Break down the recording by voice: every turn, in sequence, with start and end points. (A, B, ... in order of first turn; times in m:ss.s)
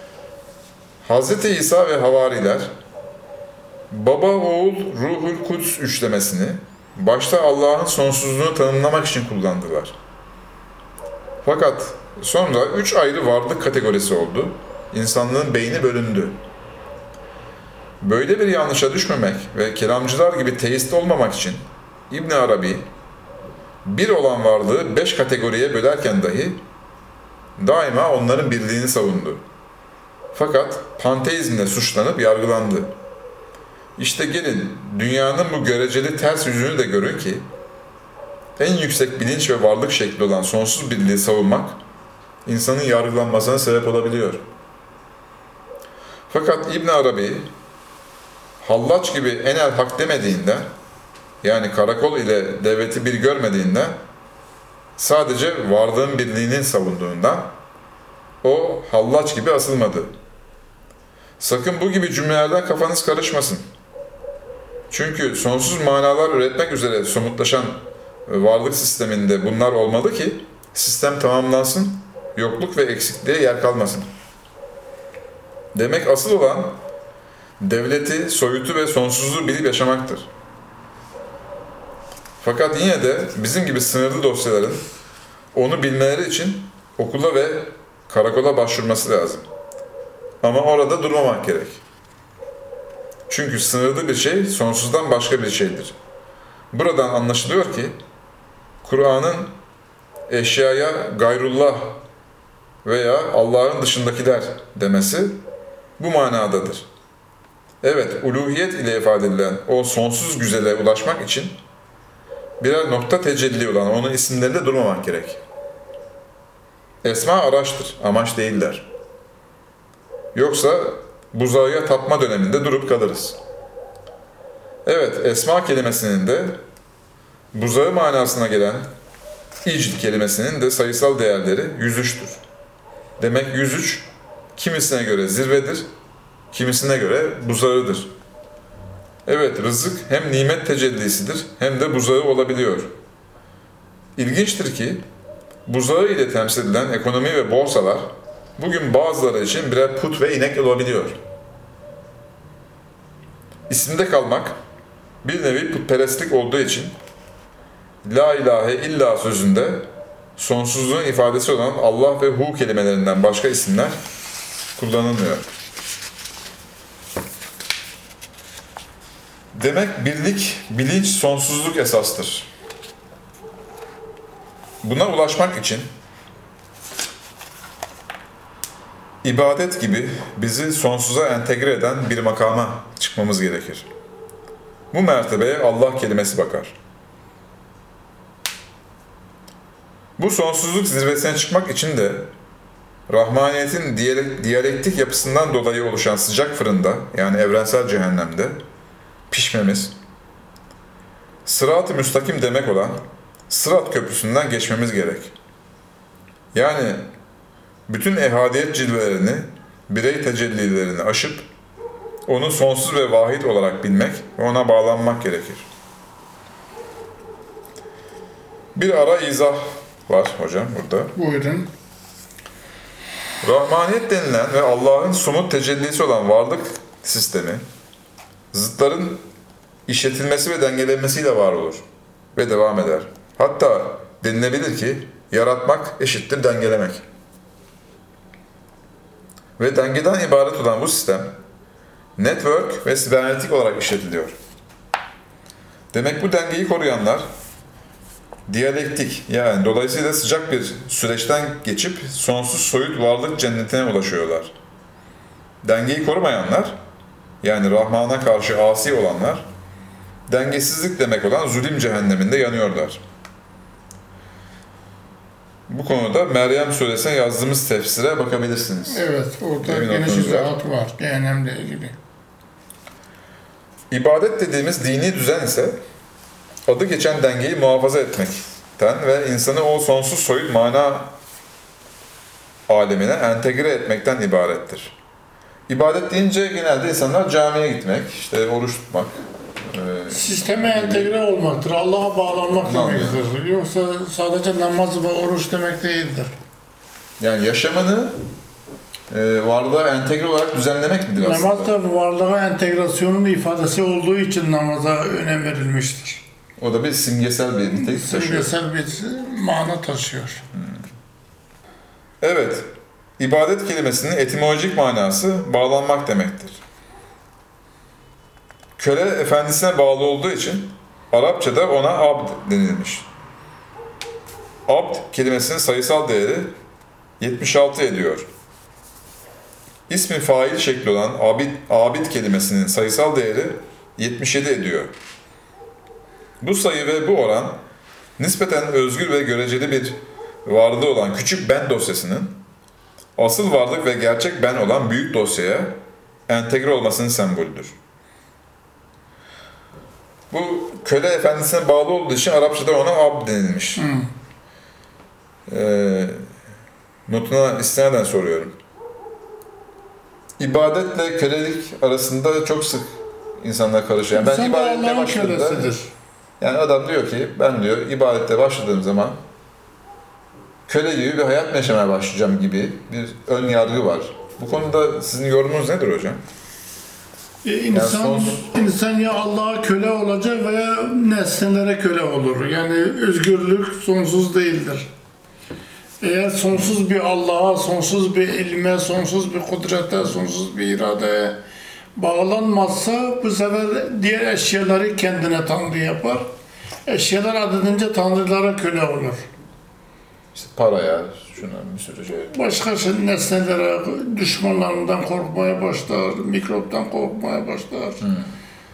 0:01.0-0:02.7 A
0:03.9-0:10.0 A
0:11.4-0:16.4 A
0:18.0-0:22.9 A
0:23.8-0:26.6 A
0:27.6-0:29.4 A
0:30.3-0:32.9 A
0:34.0-0:37.5 A
0:38.6-0:41.8 A
0:42.5-0:44.4 A
0:46.3-0:47.5 A
0:48.6-0:50.7 A
0:51.4-0:54.0 A
0:55.0-0:57.5 A
0:58.4-1:00.1 A
1:01.4-1:03.7 A
1:04.9-1:14.1 A
1:15.7-1:16.8 A
1:17.6-1:20.3 A
1:22.4-1:24.8 A
1:25.5-1:29.5 A
1:30.4-1:31.8 A
1:33.3-1:36.0 A
1:36.7-1:38.0 A
1:38.8-1:39.5 A
1:40.3-1:42.0 A
1:42.8-1:45.4 A
1:46.0-1:46.9 A
1:47.8-1:51.6 A
1:52.6-1:55.4 A
1:57.0-1:58.9 A
2:00.3-2:03.4 A
2:04.8-2:06.6 A
2:07.5-2:08.9 A
2:09.6-2:12.4 A
2:13.2-2:15.9 A
2:16.5-2:18.1 A
2:19.3-2:22.9 A
2:24.2-2:25.0 A
2:25.7-2:31.2 A
2:33.7-2:34.6 A
2:35.2-2:37.0 A
2:38.0-2:44.0 A
2:44.8-2:45.5 A
2:49.5-2:52.5 A
2:54.8-2:55.9 A
2:59.2-3:03.9 A
3:04.9-3:06.8 A
3:10.2-3:12.3 A
3:13.1-3:18.6 A
3:19.3-3:20.0 A
3:21.4-3:25.3 A
3:26.5-3:27.0 A
3:27.9-3:31.5 A
3:32.3-3:35.6 A
3:38.8-3:41.1 A
3:41.2-3:41.7 B
3:43.4-3:47.6 A
3:48.5-3:49.2 A
3:49.9-3:51.8 A
3:52.4-3:57.0 A
3:59.6-4:01.3 A
4:02.2-4:04.4 A
4:05.9-4:07.3 A
4:08.5-4:14.5 A
4:15.6-4:16.8 A
4:17.4-4:19.5 A
4:20.3-4:23.0 A
4:25.7-4:29.0 A
4:28.9-4:32.0 B
4:29.6-4:30.6 A
4:33.9-4:35.8 A
4:36.7-4:41.1 A
4:42.7-4:45.0 A
4:45.7-4:49.1 A
4:49.7-4:51.1 A
4:50.1-4:56.3 B
4:52.6-4:53.2 A
4:57.2-4:58.2 A
4:59.1-5:01.7 A
5:01.2-5:06.2 B
5:06.6-5:08.5 A
5:07.7-5:10.4 B
5:10.5-5:10.8 A
5:12.2-5:16.6 A
5:18.8-5:23.1 A
5:24.7-5:26.5 A
5:27.2-5:28.3 A
5:29.9-5:34.9 A
5:36.4-5:37.6 A
5:38.2-5:42.4 A
5:43.2-5:45.8 A
5:46.3-5:47.8 A
5:50.3-5:53.9 A
5:53.8-5:54.1 B
5:55.5-5:56.2 A
5:57.1-5:58.6 A
6:00.4-6:05.7 A
6:04.1-6:05.9 B
6:06.4-6:09.2 A
6:10.7-6:16.2 A
6:17.4-6:24.9 B
6:17.7-6:18.5 A
6:26.0-6:31.4 B
6:32.0-6:36.3 B
6:36.9-6:39.3 B
6:40.3-6:42.4 A
6:42.3-6:48.0 B
6:48.0-6:48.4 A